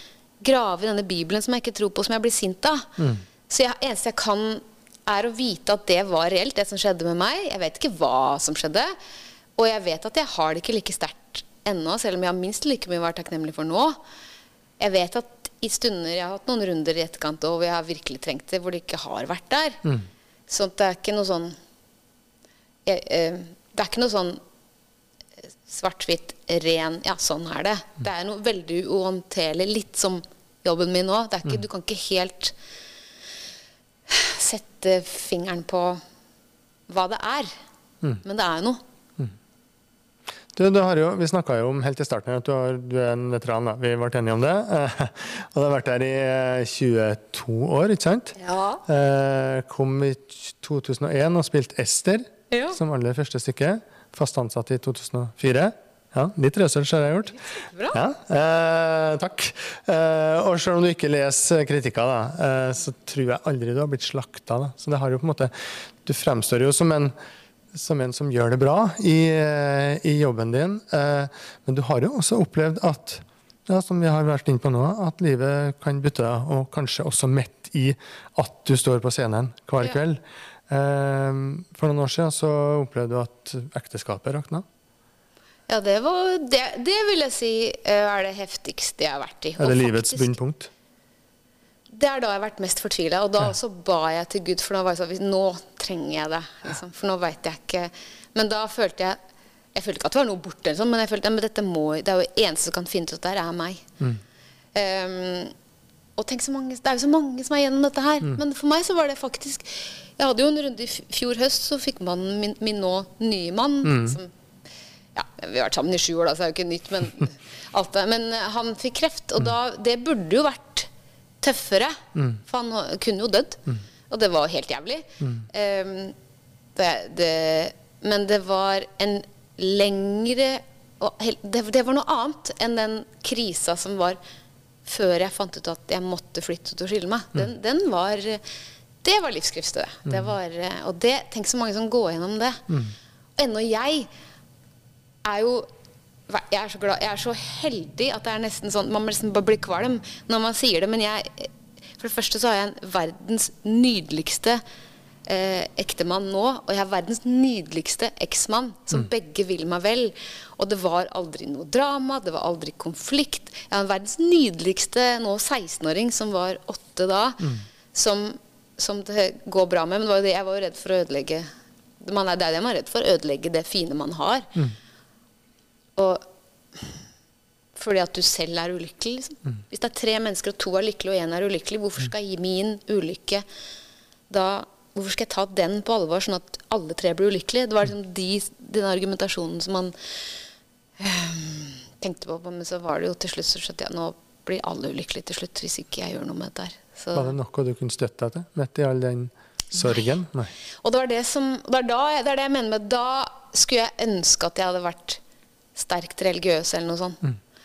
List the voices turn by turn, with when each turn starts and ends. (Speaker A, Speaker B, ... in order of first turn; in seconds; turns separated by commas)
Speaker A: 0.4-3.0, Speaker A: 3.5-8.9, Speaker A: 9.6-14.0, Speaker A: 14.8-19.8, Speaker A: 20.5-21.6, Speaker A: 22.9-24.4, Speaker A: 25.7-32.5, Speaker A: 34.1-36.0, Speaker A: 36.9-37.5, Speaker A: 38.2-38.8, Speaker B: 40.5-57.4, Speaker A: 48.4-48.8, Speaker A: 52.5-52.8, Speaker A: 57.3-58.0, Speaker B: 57.9-65.5, Speaker B: 66.0-67.1, Speaker B: 67.7-84.6, Speaker A: 85.7-90.3, Speaker B: 89.6-90.7, Speaker A: 91.9-99.2, Speaker A: 99.8-103.9, Speaker A: 104.8-105.5, Speaker A: 106.2-114.3, Speaker B: 113.8-114.2, Speaker A: 115.1-120.9, Speaker A: 121.4-126.1, Speaker A: 126.8-134.2, Speaker A: 134.8-138.4, Speaker A: 139.0-144.1, Speaker A: 145.2-145.7, Speaker A: 146.3-154.6, Speaker A: 155.3-171.5, Speaker A: 172.0-174.6, Speaker A: 176.0-176.2, Speaker A: 177.8-183.4, Speaker A: 184.3-189.9, Speaker A: 191.0-197.3, Speaker B: 197.1-200.5, Speaker A: 200.8-205.2, Speaker A: 205.8-207.2